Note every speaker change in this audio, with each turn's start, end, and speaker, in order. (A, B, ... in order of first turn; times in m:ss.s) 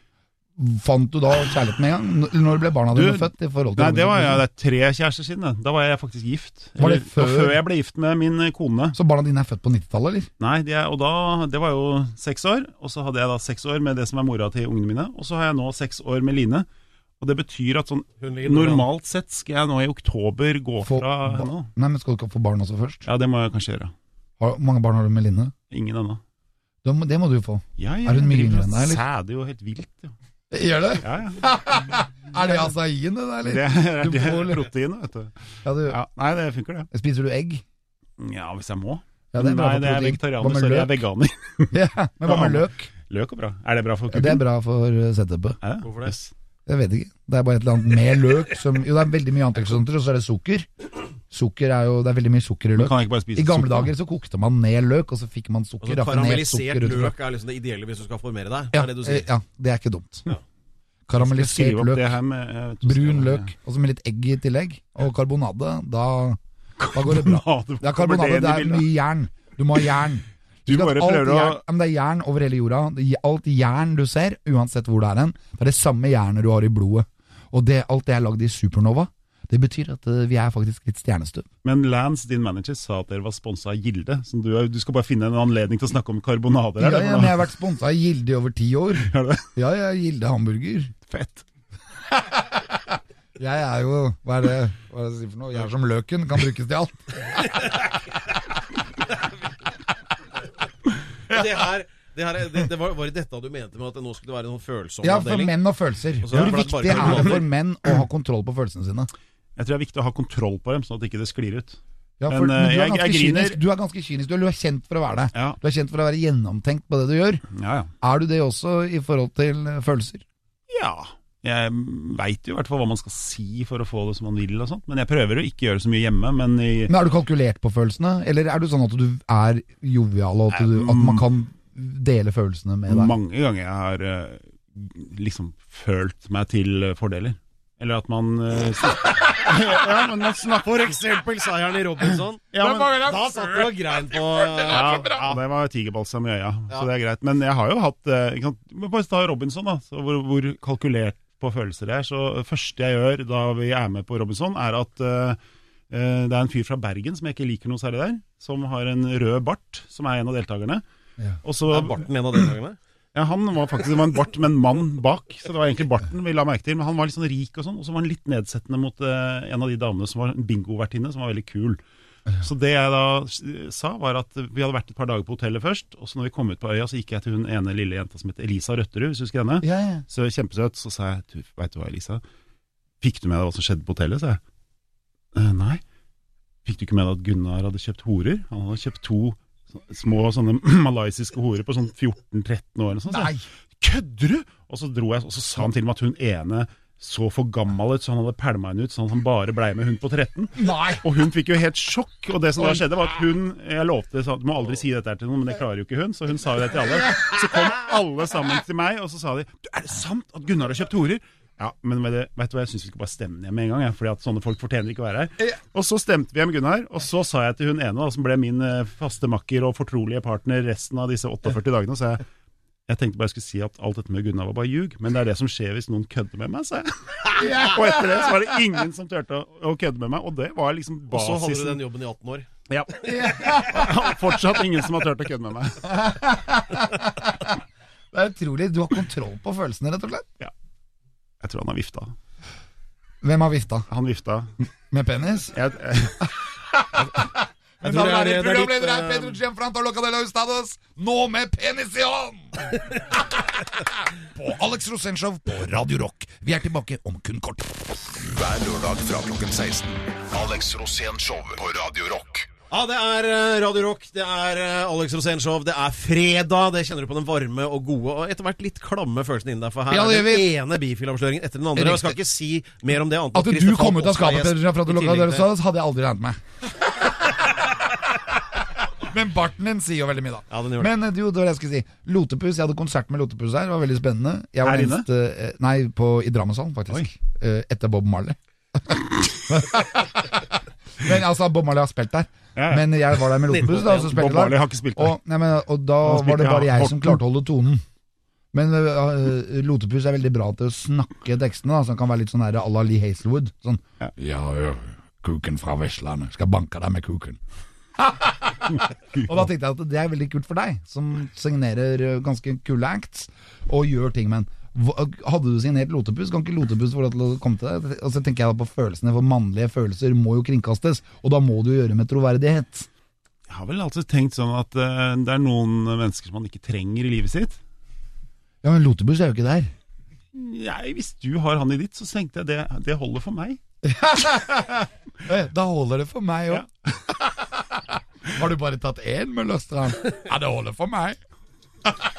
0:00.6-0:04.4 A
0:02.9-0:09.0 B
0:06.8-0:07.6 A
0:08.9-0:10.3 A
0:10.4-0:16.6 B
0:17.2-0:21.7 B
0:18.2-0:18.9 C
0:20.8-0:23.0 A
0:23.0-0:23.9 B
0:24.4-0:25.5 A
0:25.7-0:26.2 B
0:26.8-0:29.0 A
0:27.8-0:30.1 B
0:30.5-0:34.6 A
0:31.0-0:31.5 B
0:32.4-0:32.7 B
0:33.4-0:35.3 B
0:35.6-0:36.0 A
0:35.8-0:36.9 B
0:36.9-0:37.6 A
0:38.2-0:44.4 B
0:39.3-0:41.0 A
0:41.7-0:42.9 A
0:44.1-0:45.6 A
0:45.6-0:46.3 B
0:45.8-0:46.2 C
0:46.6-0:50.7 A
0:51.3-0:57.1 A
0:52.7-0:53.9 B
0:55.8-0:59.2 C
0:58.7-1:00.3 A
1:01.1-1:02.2 A
1:01.2-1:03.5 B
1:02.8-1:06.4 A
1:06.8-1:08.9 B
1:06.9-1:21.5 A
1:10.6-1:11.6 B
1:21.6-1:27.4 B
1:26.8-1:30.9 A
1:29.0-1:29.5 B
1:31.1-1:31.4 B
1:32.1-1:37.4 A
1:41.3-1:45.5 C
1:45.0-1:49.1 A
1:46.2-1:47.4 C
1:46.3-1:47.4 B
1:49.6-1:53.6 B
1:52.2-1:57.4 A
1:55.3-1:55.6 B
1:57.5-1:57.9 B
1:58.0-2:00.2 A
2:00.7-2:06.9 B
2:06.9-2:13.1 A
2:10.5-2:11.2 B
2:12.9-2:20.9 B
2:20.6-2:25.4 C
2:22.5-2:23.2 B
2:22.6-2:25.3 A
2:24.7-2:35.4 B
2:35.9-2:40.8 B
2:41.4-2:42.0 B
2:41.7-2:42.8 C
2:43.1-2:51.8 B
2:52.4-3:02.2 B
2:59.6-3:00.0 A
3:03.0-3:04.4 B
3:05.3-3:05.8 B
3:06.6-3:42.2 B
3:13.1-3:13.4 A
3:20.6-3:21.0 A
3:42.9-3:51.8 B
3:47.4-3:48.5 A
3:51.1-3:52.5 C
3:52.7-3:55.9 B
3:53.0-3:54.3 A
3:55.8-3:57.6 A
3:58.1-4:00.3 A
4:01.4-4:02.1 B
4:03.2-4:03.9 A
4:03.9-4:04.5 B
4:04.9-4:05.6 A
4:05.5-4:06.2 B
4:06.6-4:17.8 A
4:07.8-4:09.4 C
4:18.1-4:22.5 D
4:22.7-4:35.5 C
4:29.9-4:30.5 A
4:31.7-4:32.2 A
4:33.3-4:36.4 A
4:37.0-4:37.5 A
4:39.0-4:57.8 A
4:40.5-4:40.9 C
4:44.6-4:45.0 B
4:52.6-4:55.2 B
4:56.0-4:57.2 B
4:58.5-5:07.4 A
5:08.0-5:22.9 A
5:08.7-5:09.2 B
5:23.5-5:27.6 B
5:28.6-5:29.7 A
5:30.3-5:33.6 B
5:33.8-5:36.6 A
5:37.2-5:41.2 A